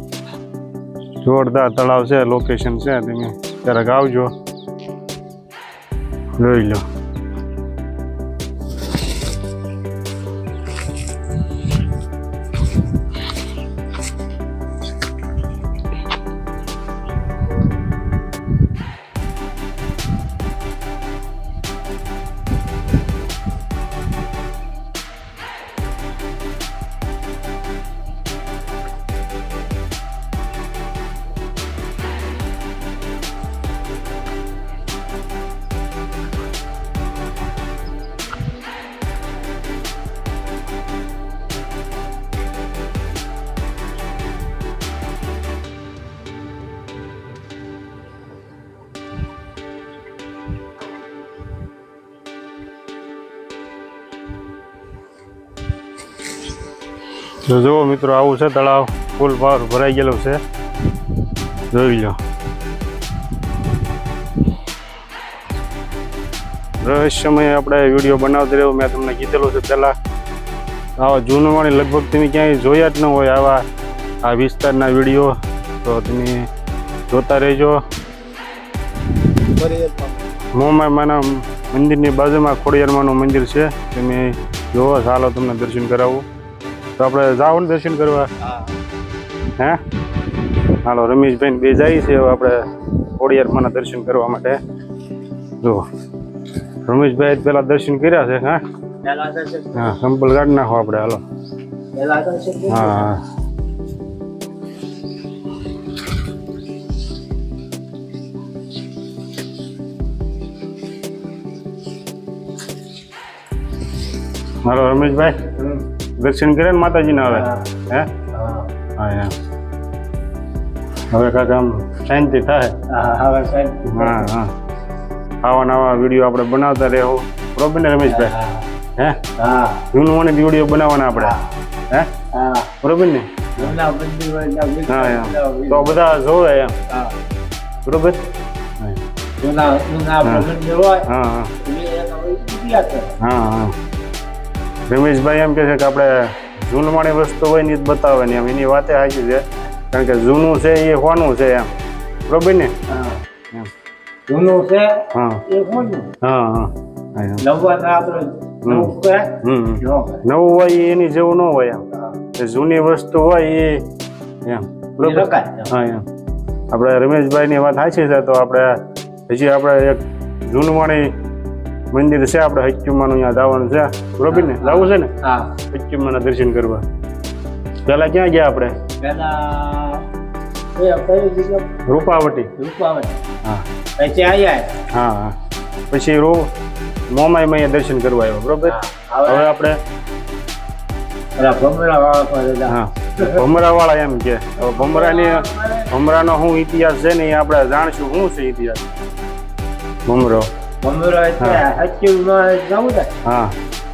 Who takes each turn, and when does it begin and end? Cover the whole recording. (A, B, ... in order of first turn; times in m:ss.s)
0:01.2-0:04.3 A
0:06.4-0:06.8 A
0:57.4-1:00.4 A
1:01.7-1:02.2 A
1:06.8-1:10.0 A
1:11.0-1:13.7 A
1:14.2-1:16.5 A
1:17.1-1:17.8 A
1:19.4-1:20.2 B
1:20.5-1:26.2 A
1:27.0-1:28.3 A
1:28.4-1:28.7 B
1:30.7-1:34.6 A
1:36.9-1:38.6 A
1:39.0-1:39.9 B
1:39.7-1:41.2 A
1:41.9-1:43.1 B
1:42.7-1:43.2 A
1:54.6-1:55.5 A
1:56.2-1:58.1 A
1:57.3-1:57.7 B
1:58.3-1:58.7 B
1:59.0-1:59.3 A
2:01.1-2:02.8 A
2:02.9-2:04.3 B
2:03.8-2:04.5 A
2:05.4-2:08.3 A
2:08.0-2:08.7 B
2:09.0-2:09.2 A
2:09.4-2:09.8 B
2:09.9-2:11.3 A
2:12.3-2:12.7 B
2:12.8-2:13.8 A
2:13.6-2:16.1 B
2:14.9-2:16.8 A
2:16.9-2:17.2 B
2:17.8-2:18.2 A
2:19.4-2:21.1 B
2:20.2-2:20.5 A
2:21.1-2:21.5 A
2:21.6-2:23.1 B
2:23.2-2:23.8 A
2:24.9-2:31.7 A
2:32.3-2:32.8 A
2:32.9-2:33.2 B
2:34.3-2:36.1 B
2:35.1-2:35.4 A
2:36.2-2:37.4 A
2:37.4-2:40.2 B
2:38.6-2:43.9 A
2:44.4-2:46.1 A
2:45.0-2:45.7 B
2:46.7-2:50.0 A
2:50.5-2:51.1 A
2:51.9-2:55.1 A
2:54.3-2:55.6 B
2:55.7-2:56.8 A
2:57.9-2:58.8 A
2:59.0-3:00.1 B
3:00.8-3:01.9 B
3:01.9-3:02.5 A
3:02.6-3:03.2 B
3:04.0-3:04.8 B
3:04.9-3:05.4 A
3:05.9-3:06.5 A
3:07.1-3:09.8 A
3:08.6-3:09.5 B
3:11.4-3:13.5 B
3:12.7-3:18.9 A
3:14.6-3:16.0 B
3:20.1-3:20.5 A
3:20.8-3:23.1 B
3:23.2-3:23.6 A